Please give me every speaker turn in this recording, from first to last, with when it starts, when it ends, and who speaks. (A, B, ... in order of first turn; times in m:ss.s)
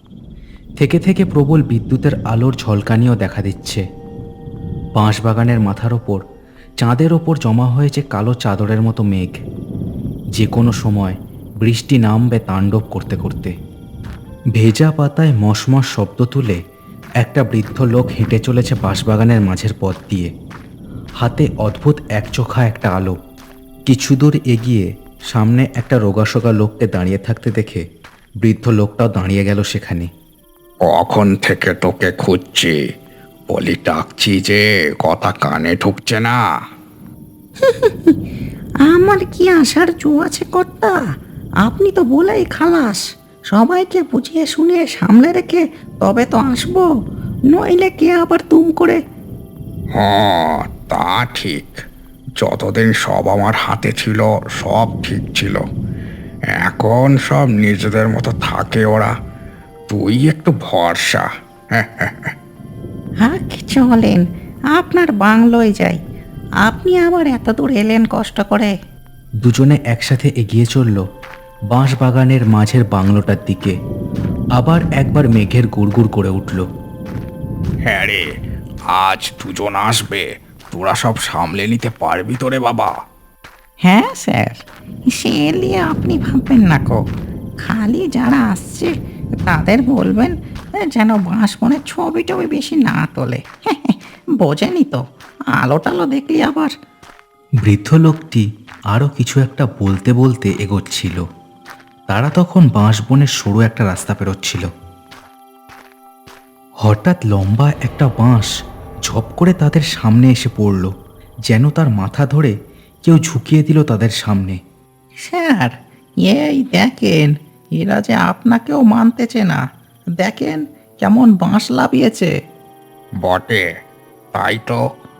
0:00.8-0:03.8 A
0:05.0-0:06.2 A
0:06.8-0:09.3 A
0:10.4-0:13.5 A
0:14.6-0:16.6 A
0:17.2-0:20.3 A
0:21.2-0:23.2 A
0:23.9-0:27.8 A
0:28.4-0:30.1 A
0:30.8-0:32.8 B
0:33.5-0:36.4 B
0:37.6-0:38.1 C
0:38.8-0:41.0 C
0:41.6-0:46.9 C
0:47.5-0:49.0 C
0:49.9-0:51.8 B
0:52.4-0:55.6 B
0:56.6-0:59.1 B
0:59.9-1:02.3 B
1:03.2-1:06.0 C
1:06.6-1:08.7 C
1:09.4-1:11.0 A
1:11.7-1:13.7 A
1:14.6-1:16.6 A
1:17.8-1:18.3 B
1:18.9-1:23.0 B
1:23.8-1:27.0 C
1:27.6-1:28.9 C
1:29.5-1:35.0 C
1:35.6-1:36.7 C
1:37.6-1:41.2 A
1:42.1-1:44.7 A
1:46.8-1:48.5 A
1:49.1-1:50.9 A
1:51.5-1:54.6 A
1:55.2-1:59.6 C
2:00.2-2:02.3 C
2:03.2-2:03.7 B
2:04.3-2:04.8 B